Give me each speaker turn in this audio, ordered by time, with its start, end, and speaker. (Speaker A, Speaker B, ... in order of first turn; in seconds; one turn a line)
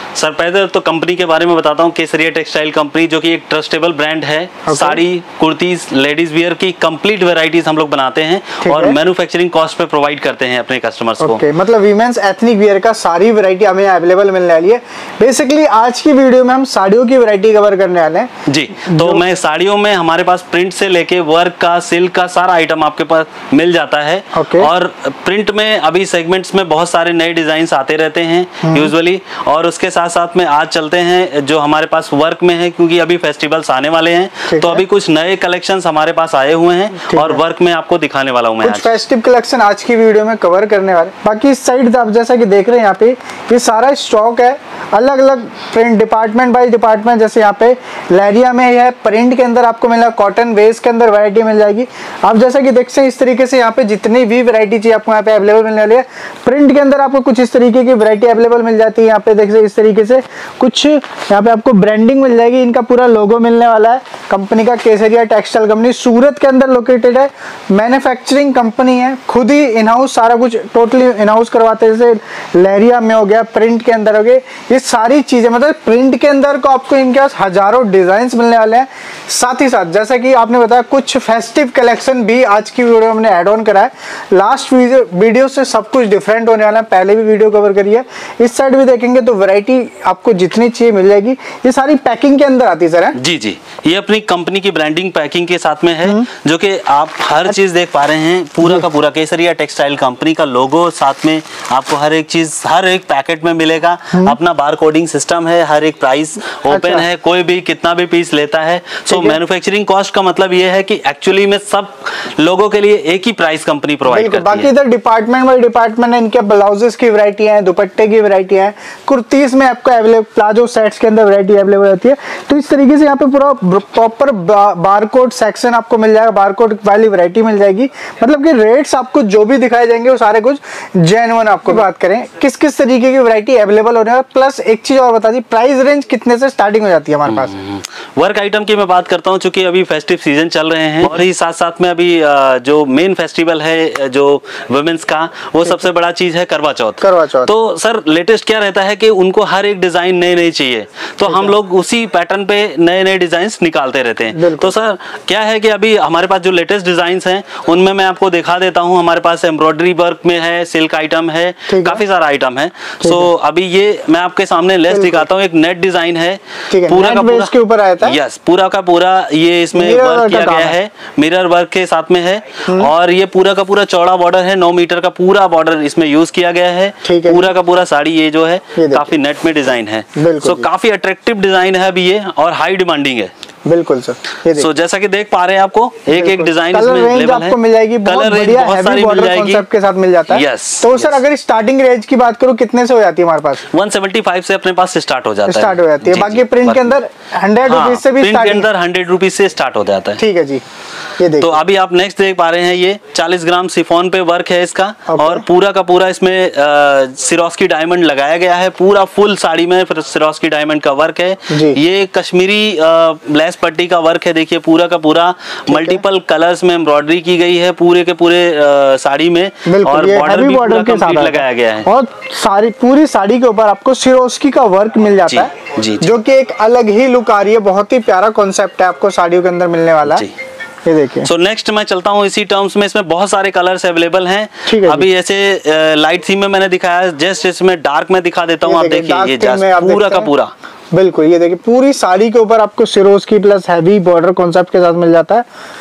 Speaker A: 0.2-11.4
Speaker B: 4.7-5.0
Speaker B: 8.6-9.0
Speaker B: 11.2-19.3
Speaker A: 18.4-38.9
Speaker B: 24.3-24.7
Speaker B: 28.6-28.9
Speaker B: 34.5-34.8
Speaker B: 37.0-37.4
Speaker B: 38.6-93.2
Speaker A: 93.2-114.7
Speaker B: 106.7-107.0
Speaker B: 109.1-109.4
Speaker B: 114.1-137.5
Speaker A: 137.3-183.3
Speaker B: 147.0-147.5
Speaker B: 151.2-151.5
Speaker B: 154.3-154.7
Speaker B: 161.7-162.0
Speaker B: 163.0-163.3
Speaker B: 164.9-165.3
Speaker B: 166.7-168.2
Speaker B: 169.7-170.8
Speaker B: 172.7-172.9
Speaker B: 177.0-177.5
Speaker B: 178.8-179.2
Speaker B: 180.2-180.7
Speaker B: 183.6-184.7
Speaker A: 184.5-189.6
Speaker B: 186.1-193.7
Speaker A: 190.3-191.2
Speaker A: 193.7-197.0
Speaker B: 195.4-198.7
Speaker A: 197.6-200.2
Speaker B: 200.2-200.6
Speaker B: 201.2-201.6
Speaker A: 201.4-221.9
Speaker B: 205.1-205.4
Speaker B: 211.5-211.8
Speaker B: 215.7-216.0
Speaker B: 219.7-230.2
Speaker A: 225.3-226.1
Speaker A: 230.1-230.3
Speaker B: 230.8-231.3
Speaker A: 231.2-240.5
Speaker B: 234.7-235.1
Speaker B: 238.6-240.3
Speaker B: 240.9-245.4